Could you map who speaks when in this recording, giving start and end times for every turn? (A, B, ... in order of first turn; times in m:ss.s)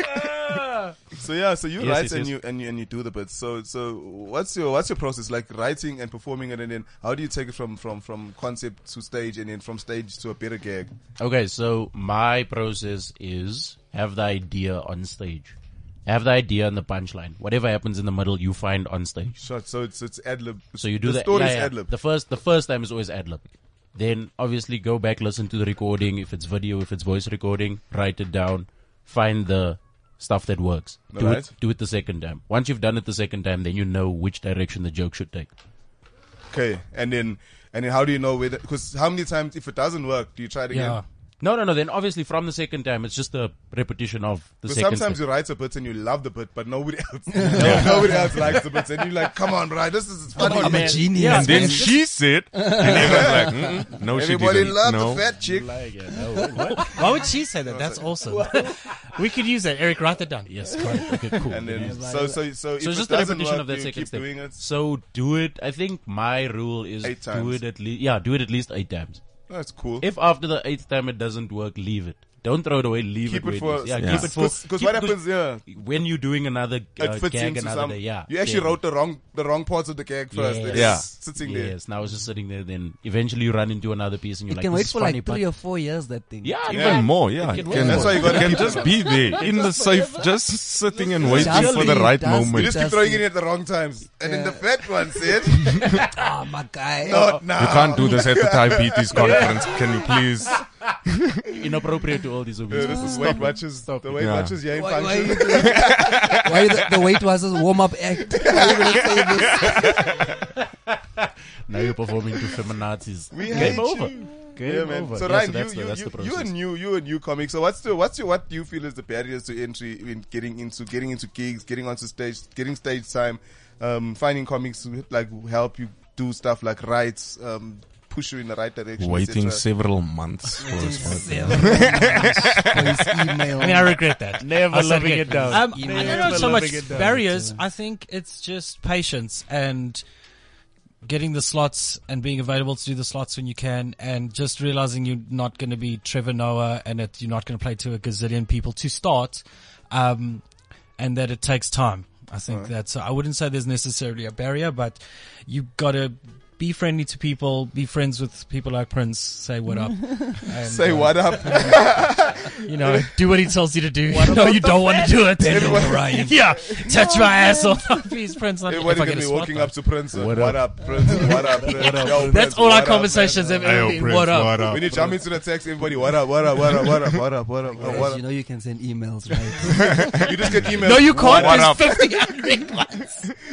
0:00.1-0:00.9 A
0:01.1-0:10.9 B
0:01.8-0:02.3 A
0:11.2-0:15.6 A
0:16.1-0:19.4 A
0:19.4-0:21.9 B
0:20.8-0:23.4 A
0:23.9-0:35.5 A
0:31.1-0:31.5 B
0:36.5-0:41.0 B
0:40.7-0:41.0 C
0:41.4-0:45.2 A
0:44.7-0:51.2 B
0:47.3-0:48.3 D
0:47.6-0:48.6 E
0:47.6-0:48.2 A
0:50.4-0:53.8 D
0:50.4-0:51.1 A
0:51.0-0:52.0 C
0:51.3-0:55.2 E
0:52.8-0:55.7 B
0:55.4-0:57.0 A
0:56.8-1:01.5 C
0:57.6-0:58.5 B
1:00.5-1:02.0 A
1:01.5-1:04.6 B
1:01.7-1:02.4 D
1:02.8-1:09.2 A
1:07.0-1:07.6 B
1:09.5-1:10.1 B
1:10.0-1:18.8 A
1:13.2-1:15.6 B
1:14.0-1:14.3 E
1:17.0-1:21.8 B
1:20.3-1:25.5 A
1:20.7-1:21.1 E
1:24.5-1:26.7 D
1:26.4-1:29.5 A
1:26.7-1:29.4 B
1:26.7-1:32.9 E
1:27.4-1:29.8 D
1:31.2-1:31.9 A
1:31.2-1:33.3 D
1:31.2-1:31.9 B
1:32.4-1:36.1 B
1:34.2-1:35.3 D
1:36.1-1:37.4 D
1:37.0-1:39.9 B
1:37.1-1:37.4 A
1:37.5-1:41.4 E
1:39.1-1:40.7 A
1:41.5-1:44.3 A
1:42.7-1:46.4 B
1:42.8-1:43.5 D
1:44.2-1:44.6 E
1:44.7-1:50.1 D
1:45.5-1:46.8 E
1:48.3-1:50.2 B
1:51.2-1:56.5 A
1:53.3-2:09.6 B
1:53.5-1:53.8 D
2:09.0-2:13.0 E
2:10.6-2:14.0 D
2:11.4-2:12.6 C
2:13.5-2:20.0 C
2:14.4-2:17.2 A
2:15.5-2:17.6 D
2:21.0-2:50.0 C
2:40.6-2:43.2 B
2:44.1-2:47.5 B
2:45.4-2:46.4 D
2:48.7-2:53.5 B
2:50.1-2:52.4 A
2:51.9-2:54.8 C
2:53.4-2:53.6 D
2:53.6-2:54.9 E
2:54.7-2:58.2 B
2:54.9-2:55.2 A
2:57.7-3:00.2 D
2:59.9-3:00.2 E
3:00.2-3:02.1 B
3:00.7-3:03.3 C
3:01.2-3:02.1 E